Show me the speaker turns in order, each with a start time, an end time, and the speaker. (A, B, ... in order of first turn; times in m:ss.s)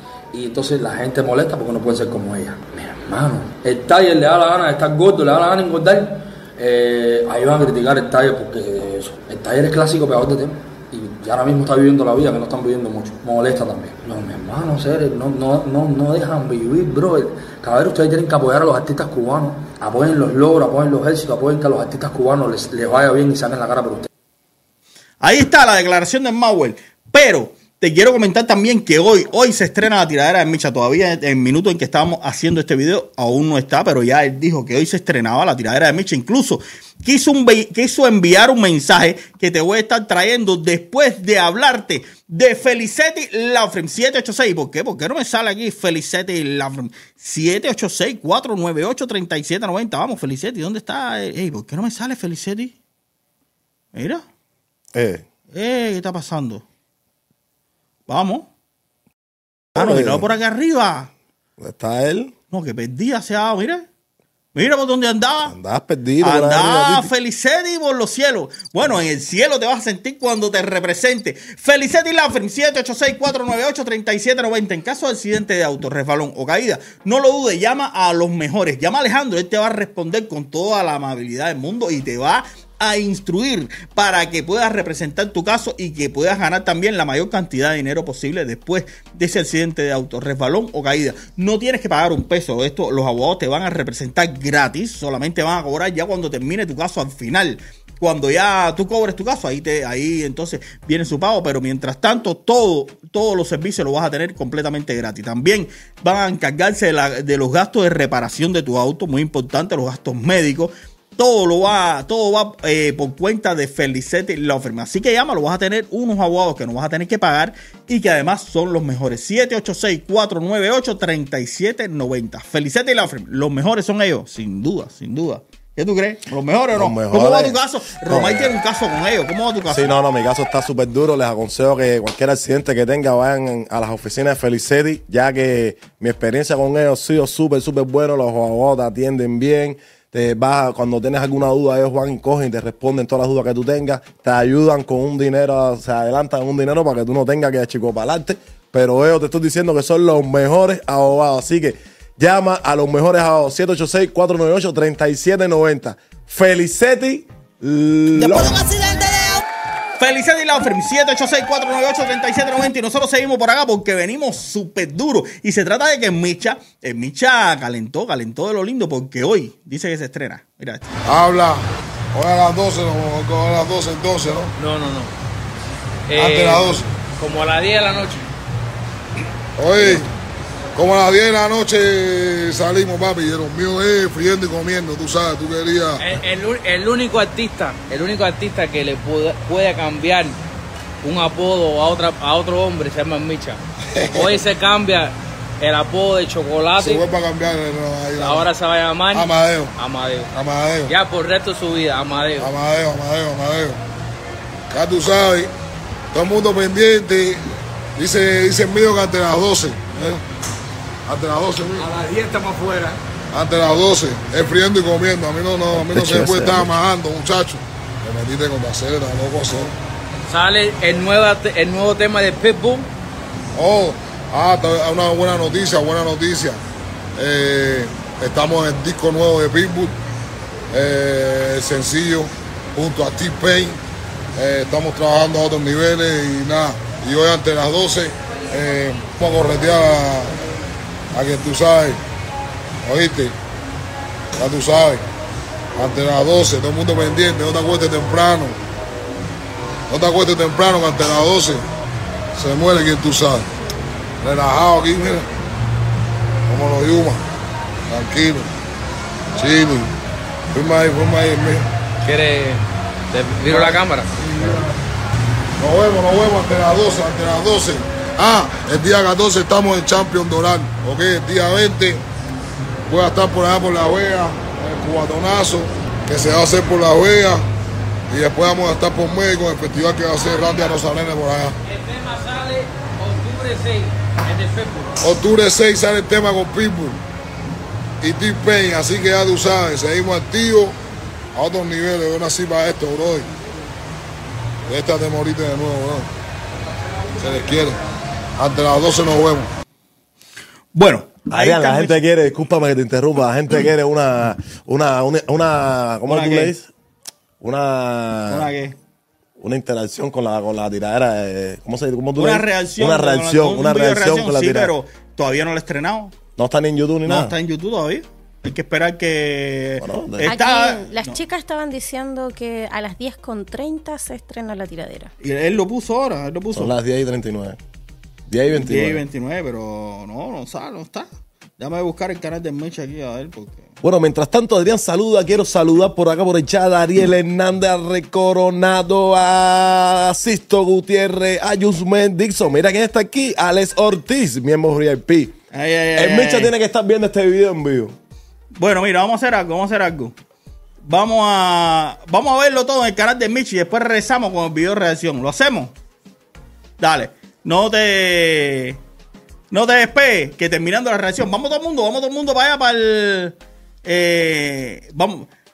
0:00.3-0:24.1 A
0:25.2-0:52.8 B
0:54.0-0:54.2 B
0:54.9-0:55.2 C
0:55.5-0:56.6 B
0:58.1-0:58.5 B
0:59.8-1:00.2 C
0:59.8-1:01.1 B
1:01.6-1:02.3 C
1:02.5-1:03.9 B
1:04.5-1:05.6 B
1:05.5-1:07.1 C
1:06.2-2:10.0 B
2:06.7-2:08.5 C
2:09.7-2:38.7 C
2:38.2-2:39.4 B
2:40.0-2:50.9 B
2:51.1-2:54.5 D
2:54.6-2:55.1 E
2:56.1-2:58.3 E
2:56.2-2:56.8 D
2:59.6-3:00.1 D
3:00.8-3:06.0 D
3:06.0-3:10.4 E
3:11.0-3:13.6 E
3:14.0-3:14.4 D
3:14.1-3:17.0 E
3:16.8-3:18.5 D
3:18.2-3:20.3 E
3:19.1-3:19.7 D
3:20.3-3:20.9 D
3:20.9-3:22.5 E
3:22.4-3:23.8 D
3:24.7-3:25.5 D
3:26.1-3:27.4 D
3:28.0-3:30.2 D
3:31.1-3:31.9 D
3:31.8-3:33.0 E
3:33.3-3:39.7 D
3:35.7-3:36.7 C
3:40.2-3:42.9 E
3:43.6-3:46.6 D
3:47.2-3:50.0 D
3:50.7-3:53.8 D
3:54.4-4:00.4 D
4:01.1-4:02.0 D
4:02.8-4:03.3 D
4:04.4-4:05.0 D
4:05.8-4:08.6 D
4:09.9-4:11.6 D
4:12.4-4:13.5 D
4:14.2-4:15.3 D
4:16.5-4:17.2 D
4:17.9-4:18.5 D
4:19.4-4:19.9 D
4:20.5-4:21.6 D
4:22.0-4:24.6 E
4:23.5-4:24.7 D
4:25.6-4:32.0 D
4:32.9-4:37.4 D
4:38.1-4:41.6 D
4:41.7-4:44.9 E
4:45.0-4:47.0 D
4:48.0-4:50.8 D
4:51.4-4:53.3 D
4:54.7-4:56.1 D
4:57.2-4:57.8 D
4:58.4-4:59.5 D
5:00.8-5:02.0 B
5:01.3-5:06.7 C
5:06.1-5:06.5 B
5:07.4-5:08.5 C
5:08.3-5:08.8 B
5:09.4-5:14.7 C
5:12.2-5:16.2 B
5:16.4-5:17.3 C
5:17.1-5:21.2 B
5:19.8-5:20.3 C
5:20.3-5:25.1 F
5:25.2-5:26.7 B
5:26.5-5:27.6 C
5:28.3-5:29.0 C
5:28.5-5:33.7 B
5:33.8-5:45.4 C
5:45.5-5:46.5 B
5:46.0-5:48.0 C
5:48.6-5:50.2 B
5:50.9-5:55.8 B
5:56.8-5:58.8 B
5:59.5-6:05.3 B